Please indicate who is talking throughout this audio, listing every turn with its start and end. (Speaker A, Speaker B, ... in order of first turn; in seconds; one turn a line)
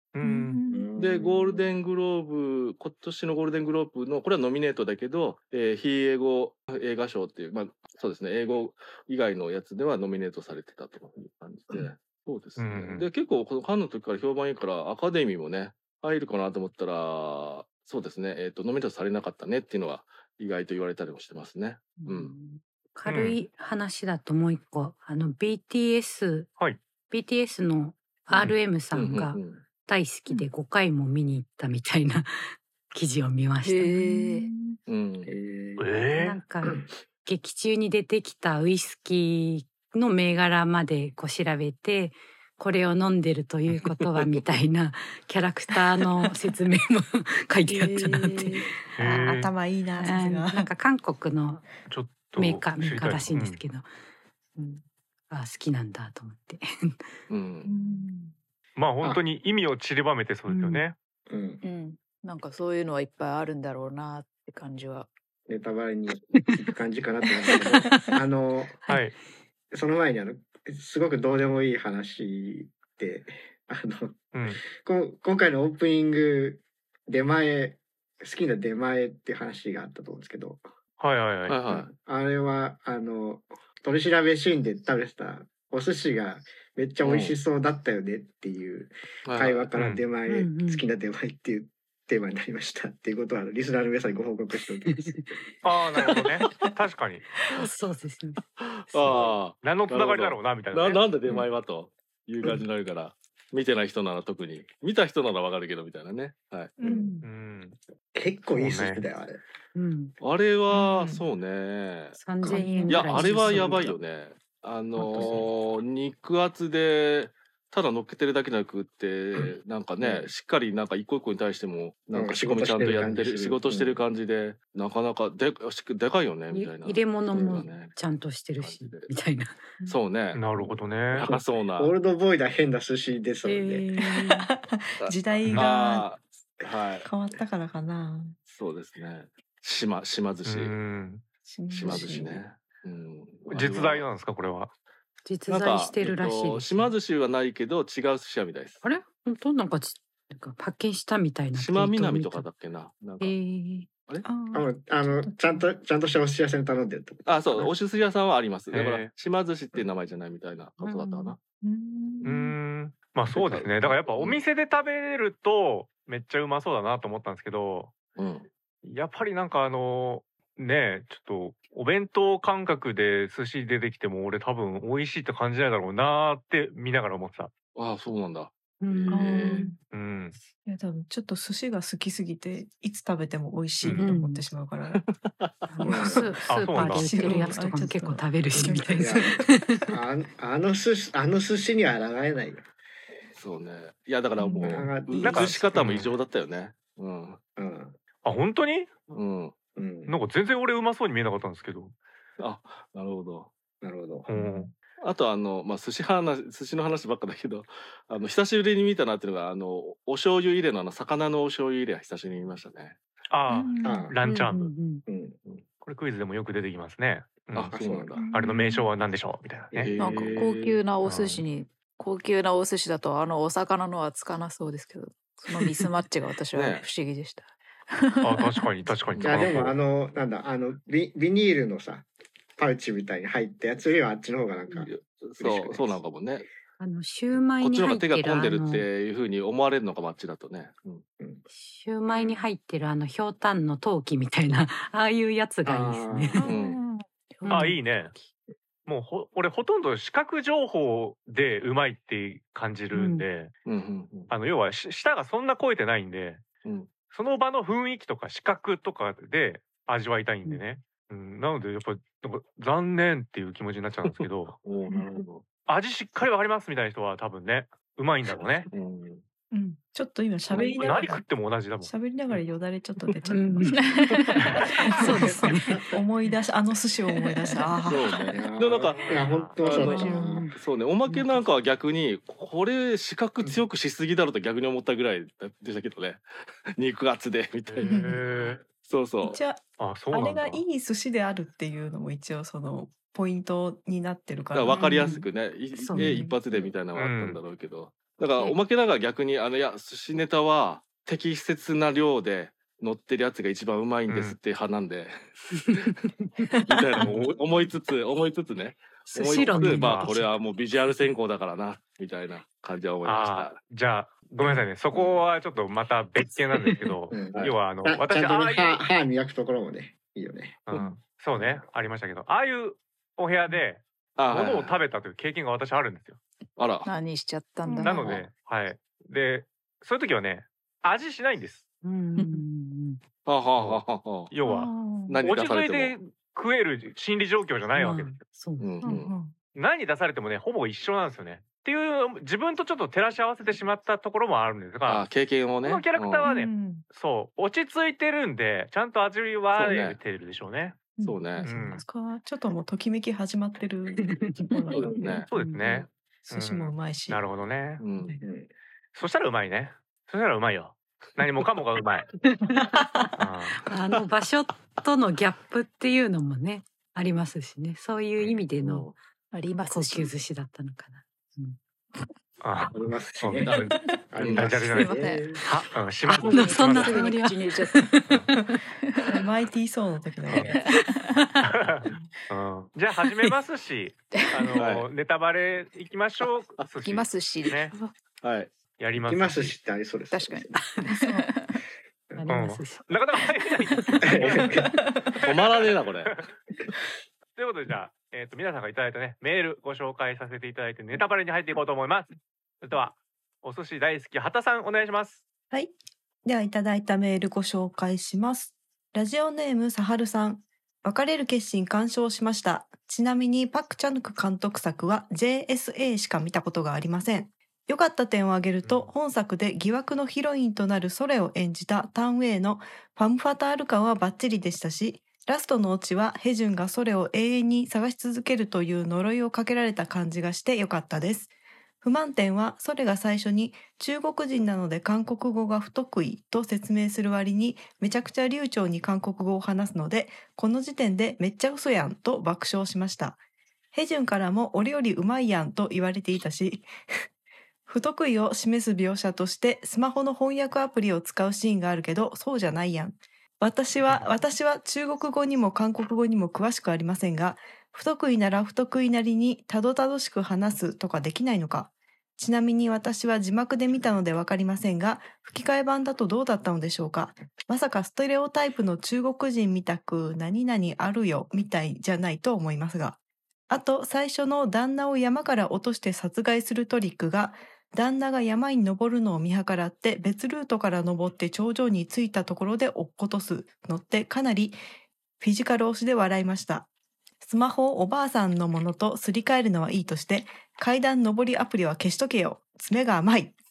Speaker A: 0.1-0.6
Speaker B: 0.2-0.9
Speaker C: 0.7-1.7
Speaker D: 0.9-22.3
Speaker A: 12.6-13.1
Speaker E: 22.0-26.5
Speaker A: 23.1-23.4
Speaker E: 27.1-34.1
Speaker D: 28.3-29.6
Speaker F: 33.6-34.5
Speaker B: 33.9-34.8
Speaker D: 34.9-35.3
Speaker C: 35.2-35.9
Speaker A: 35.8-36.4
Speaker E: 36.1-49.4
Speaker D: 43.9-44.2
Speaker F: 47.7-48.7
Speaker A: 49.0-49.5
Speaker B: 49.0-50.7
Speaker E: 50.0-51.6
Speaker A: 51.9-53.6
Speaker E: 52.3-53.9
Speaker E: 54.6-57.0
Speaker D: 57.3-57.7
Speaker B: 57.6-58.3
Speaker A: 58.8-60.9
Speaker E: 60.5-60.8
Speaker C: 61.3-61.6
Speaker F: 61.6-65.1
Speaker C: 65.5-68.8
Speaker E: 67.9-68.2
Speaker A: 68.9-69.2
Speaker C: 69.7-80.6
Speaker A: 74.3-74.6
Speaker A: 81.0-81.6
Speaker D: 81.5-81.9
Speaker C: 81.7-95.4
Speaker D: 87.0-87.4
Speaker D: 89.2-89.7
Speaker A: 89.7-90.0
Speaker E: 90.3-90.8
Speaker E: 94.9-95.2
Speaker A: 95.6-97.2
Speaker E: 96.0-96.4
Speaker E: 97.5-98.4
Speaker D: 98.4-106.8
Speaker E: 98.9-99.3
Speaker A: 99.6-101.0
Speaker B: 106.8-107.3
Speaker A: 107.2-107.8
Speaker C: 108.1-109.4
Speaker A: 108.5-109.0
Speaker E: 109.7-110.1
Speaker D: 110.2-112.2
Speaker B: 110.7-111.2
Speaker E: 112.1-113.9
Speaker B: 112.4-113.8
Speaker D: 112.8-128.0
Speaker E: 115.0-115.4
Speaker C: 115.2-115.4
Speaker C: 120.0-120.3
Speaker C: 122.1-124.0
Speaker E: 126.5-129.7
Speaker D: 128.6-129.1
Speaker D: 129.9-131.9
Speaker A: 130.3-131.3
Speaker C: 131.2-133.9
Speaker E: 133.4-134.5
Speaker B: 134.1-136.1
Speaker D: 135.0-137.1
Speaker B: 137.0-138.4
Speaker D: 138.5-140.8
Speaker A: 140.4-141.2
Speaker B: 141.5-142.4
Speaker D: 141.7-144.1
Speaker A: 143.5-144.7
Speaker E: 145.2-146.9
Speaker D: 145.5-148.8
Speaker E: 148.8-152.5
Speaker D: 151.5-153.3
Speaker E: 153.2-153.9
Speaker B: 154.2-155.7
Speaker C: 154.5-157.7
Speaker D: 157.2-161.4
Speaker A: 158.7-159.1
Speaker E: 160.8-161.4
Speaker B: 161.6-162.6
Speaker A: 162.2-167.9
Speaker D: 163.3-164.4
Speaker D: 168.2-168.5
Speaker A: 168.8-177.5
Speaker D: 177.7-179.6
Speaker E: 178.8-179.7
Speaker B: 179.1-179.8
Speaker A: 179.9-180.4
Speaker B: 180.7-185.0
Speaker A: 183.8-184.1
Speaker E: 183.9-184.4
Speaker D: 184.9-185.7
Speaker E: 185.7-189.9
Speaker B: 185.8-189.4
Speaker C: 185.9-186.2
Speaker A: 186.5-187.4
Speaker C: 189.0-189.3
Speaker C: 189.9-192.7
Speaker D: 193.3-197.4
Speaker E: 194.4-194.7
Speaker B: 194.4-195.8
Speaker C: 194.6-195.6
Speaker A: 195.2-196.1
Speaker C: 197.6-197.9
Speaker A: 198.2-199.0
Speaker D: 199.1-199.5
Speaker C: 199.8-200.1
Speaker A: 200.1-201.9
Speaker D: 202.4-203.5
Speaker C: 203.8-204.3
Speaker A: 204.3-204.7
Speaker B: 204.4-204.6
Speaker D: 205.0-213.0
Speaker A: 213.3-214.7
Speaker B: 213.5-214.1
Speaker C: 213.8-214.1
Speaker E: 214.2-215.0
Speaker C: 215.1-215.4
Speaker A: 215.8-217.7
Speaker D: 217.5-218.2
Speaker C: 217.7-218.2
Speaker B: 218.1-218.9
Speaker A: 218.3-219.9
Speaker C: 219.7-220.4
Speaker D: 219.8-220.8
Speaker F: 220.0-228.6
Speaker A: 221.0-221.4
Speaker D: 226.5-226.8
Speaker A: 228.2-229.7
Speaker D: 229.1-229.6
Speaker C: 229.2-232.1
Speaker C: 232.6-236.0
Speaker D: 234.7-236.5
Speaker E: 236.8-238.9
Speaker D: 237.6-241.0
Speaker E: 241.5-246.5
Speaker C: 245.6-246.5
Speaker D: 246.4-246.8
Speaker B: 246.4-246.9
Speaker E: 247.4-247.8
Speaker F: 247.4-247.7
Speaker A: 247.5-248.1
Speaker A: 248.9-253.5
Speaker E: 252.9-253.2
Speaker D: 253.7-254.3
Speaker A: 254.3-256.4
Speaker D: 256.6-256.9
Speaker A: 257.1-264.6
Speaker D: 264.1-265.4
Speaker A: 265.6-268.7
Speaker D: 268.7-269.2
Speaker B: 269.5-271.2
Speaker D: 270.5-271.1
Speaker A: 270.7-272.4
Speaker B: 271.8-278.3
Speaker E: 273.3-275.9
Speaker F: 273.7-274.4
Speaker E: 277.4-277.7
Speaker D: 277.9-286.2
Speaker C: 278.3-280.5
Speaker A: 278.9-279.6
Speaker F: 279.8-280.1
Speaker E: 279.8-281.4
Speaker B: 279.9-280.2
Speaker D: 286.8-289.4
Speaker A: 287.7-288.6
Speaker B: 287.8-288.2
Speaker B: 289.2-295.2
Speaker A: 289.8-290.6
Speaker D: 294.5-305.9
Speaker E: 294.8-296.2
Speaker B: 295.9-296.6
Speaker A: 297.0-297.4
Speaker A: 304.1-304.4
Speaker E: 305.5-306.3
Speaker D: 306.7-313.6
Speaker E: 309.1-310.4
Speaker A: 309.4-310.1
Speaker A: 313.0-318.8
Speaker C: 317.1-320.6
Speaker A: 320.7-326.2
Speaker D: 324.1-324.8
Speaker D: 326.6-326.9
Speaker F: 326.9-328.0
Speaker B: 327.6-328.0
Speaker A: 327.8-331.7
Speaker E: 331.8-333.0
Speaker D: 333.2-334.3
Speaker A: 333.6-338.2
Speaker B: 334.4-335.2
Speaker D: 335.1-335.9
Speaker E: 337.7-338.9
Speaker D: 338.6-339.1
Speaker B: 338.8-339.3
Speaker A: 339.5-345.1
Speaker D: 344.9-346.3
Speaker A: 345.6-350.9
Speaker B: 346.2-346.9
Speaker D: 349.5-350.0
Speaker B: 351.0-355.2
Speaker D: 351.0-351.5
Speaker A: 351.4-351.8
Speaker E: 354.0-354.8
Speaker D: 354.7-355.9
Speaker A: 355.3-357.8
Speaker E: 355.3-355.6
Speaker B: 356.2-357.2
Speaker D: 357.8-358.2
Speaker C: 358.2-358.5
Speaker A: 358.9-362.1
Speaker E: 362.2-368.9
Speaker A: 363.2-363.5
Speaker D: 368.6-368.9
Speaker F: 369.3-370.1
Speaker E: 369.7-371.6
Speaker A: 372.4-373.8
Speaker C: 372.7-373.6
Speaker D: 373.4-374.5
Speaker C: 374.1-375.4
Speaker A: 374.3-377.0
Speaker F: 374.5-375.4
Speaker F: 376.1-377.9
Speaker E: 376.1-378.2
Speaker F: 378.8-379.2
Speaker B: 379.1-380.6
Speaker F: 380.5-381.2
Speaker E: 380.5-381.2
Speaker A: 381.4-387.7
Speaker F: 384.1-384.5
Speaker D: 384.6-384.9
Speaker F: 386.9-387.7
Speaker D: 388.2-388.5
Speaker A: 388.8-389.6
Speaker C: 389.0-390.6
Speaker F: 390.1-391.6
Speaker E: 390.5-391.2
Speaker E: 392.1-394.6
Speaker A: 392.3-394.6
Speaker C: 394.0-394.8
Speaker D: 395.2-396.2
Speaker A: 397.4-405.2
Speaker B: 406.2-431.3
Speaker A: 418.6-418.9
Speaker B: 431.8-443.2
Speaker B: 443.7-446.7
Speaker B: 447.7-473.0
Speaker B: 473.5-484.6
Speaker B: 485.2-486.7
Speaker B: 487.2-493.4